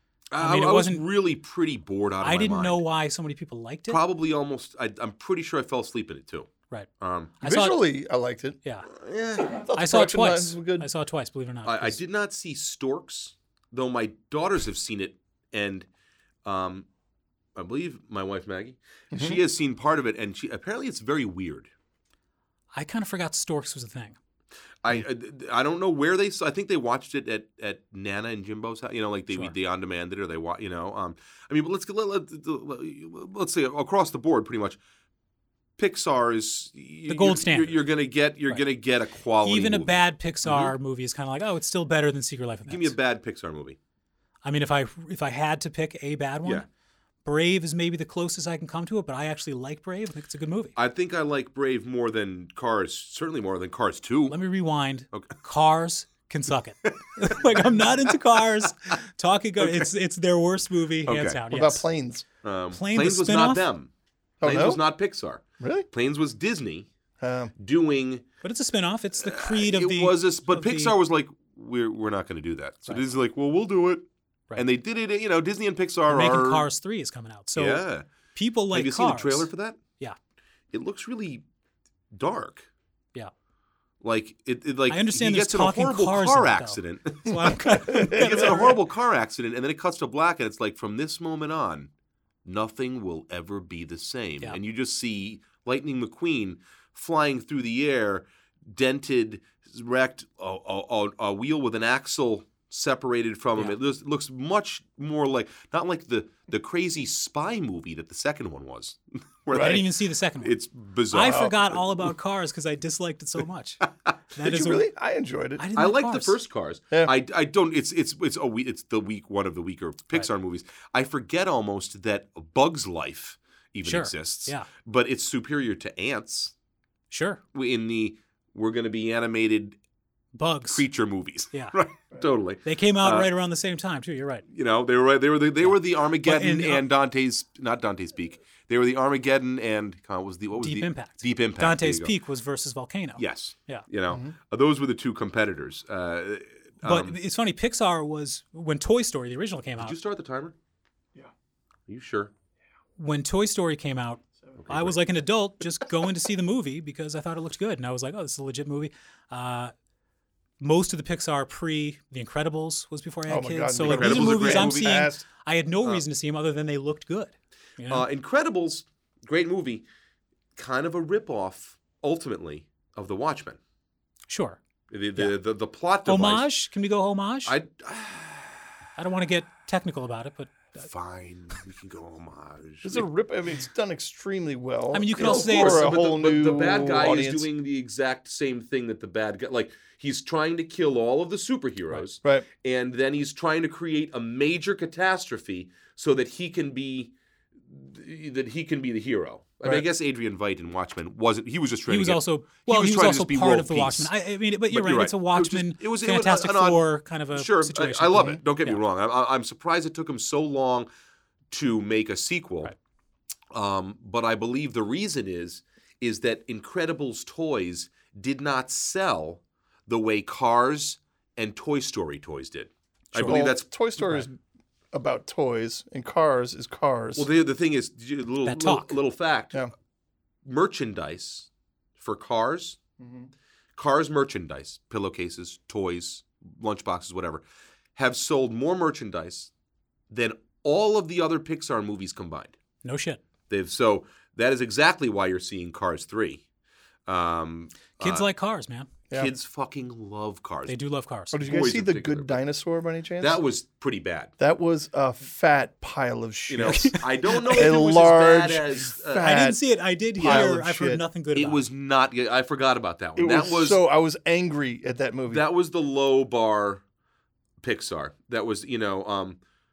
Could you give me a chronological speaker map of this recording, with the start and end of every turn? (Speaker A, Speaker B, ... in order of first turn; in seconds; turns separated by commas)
Speaker A: 0.3-2.9, Speaker B: 0.4-1.1, Speaker B: 2.2-4.0, Speaker A: 3.9-7.4, Speaker B: 7.4-7.9, Speaker C: 7.4-8.6, Speaker A: 8.9-9.6, Speaker C: 9.4-10.9, Speaker B: 9.8-12.0, Speaker A: 11.7-15.9, Speaker A: 16.4-16.9, Speaker A: 17.6-21.7, Speaker C: 19.1-19.4, Speaker B: 22.7-24.2, Speaker A: 24.8-34.8, Speaker A: 35.8-40.7, Speaker B: 37.1-38.7, Speaker B: 39.4-43.0, Speaker A: 42.7-43.8, Speaker B: 44.4-46.7, Speaker B: 47.2-50.8, Speaker A: 50.8-54.4, Speaker B: 54.3-61.9, Speaker A: 57.5-58.0, Speaker A: 59.6-59.9, Speaker A: 61.1-61.4, Speaker C: 61.5-62.2, Speaker A: 62.4-63.9, Speaker B: 62.7-63.7, Speaker C: 64.4-64.8, Speaker A: 64.4-66.9, Speaker C: 65.6-65.9, Speaker C: 67.2-67.5, Speaker A: 67.6-68.3, Speaker B: 68.4-71.0, Speaker A: 69.2-76.7, Speaker B: 76.1-80.2, Speaker A: 77.5-78.1, Speaker A: 78.7-79.8, Speaker A: 80.7-81.5, Speaker A: 82.1-82.7, Speaker A: 84.0-91.9, Speaker B: 84.9-88.8, Speaker C: 88.0-88.6, Speaker A: 92.5-109.9, Speaker C: 109.5-109.8, Speaker B: 109.5-110.6, Speaker A: 110.4-112.1, Speaker B: 111.1-114.9, Speaker C: 111.2-111.5, Speaker C: 114.4-115.6, Speaker B: 115.6-116.4, Speaker A: 115.8-126.5, Speaker B: 123.8-124.7, Speaker B: 127.1-127.4, Speaker A: 127.5-129.8, Speaker B: 130.3-130.9, Speaker A: 130.7-133.3, Speaker B: 132.6-134.4, Speaker A: 134.5-142.1, Speaker B: 135.6-136.8, Speaker B: 140.6-143.8, Speaker A: 143.2-147.2, Speaker B: 146.8-150.0, Speaker A: 149.8-150.6, Speaker A: 151.9-152.3, Speaker B: 153.0-159.7, Speaker A: 154.6-155.0, Speaker B: 160.6-168.1, Speaker C: 163.3-165.2, Speaker A: 163.8-165.1, Speaker A: 167.9-169.8, Speaker A: 170.6-173.6, Speaker B: 174.3-174.6, Speaker A: 174.9-176.5, Speaker B: 176.1-177.6, Speaker A: 177.5-178.6, Speaker B: 179.0-180.9, Speaker A: 180.8-183.1, Speaker C: 182.8-187.5, Speaker B: 184.9-186.0, Speaker A: 185.2-197.1, Speaker A: 197.7-204.1, Speaker B: 201.9-208.8, Speaker A: 204.7-210.9, Speaker A: 211.5-212.7, Speaker A: 213.5-223.7, Speaker B: 223.1-224.3, Speaker C: 223.2-224.4, Speaker C: 224.9-227.3, Speaker A: 227.2-229.6, Speaker B: 228.4-229.0, Speaker A: 230.4-232.8, Speaker C: 233.0-233.3, Speaker A: 233.8-237.4, Speaker A: 238.0-239.5, Speaker A: 240.1-242.6, Speaker B: 242.8-243.2, Speaker A: 243.5-246.4, Speaker A: 247.1-248.3, Speaker B: 248.0-248.9, Speaker A: 249.1-250.8, Speaker B: 250.7-251.5, Speaker C: 251.3-253.4, Speaker A: 251.4-252.4, Speaker A: 253.2-254.3, Speaker C: 254.4-261.0, Speaker A: 256.5-259.4, Speaker B: 256.6-257.7, Speaker B: 259.1-261.7, Speaker A: 260.2-260.6, Speaker A: 261.4-263.8, Speaker C: 263.2-265.4, Speaker A: 265.3-266.8, Speaker A: 267.6-269.4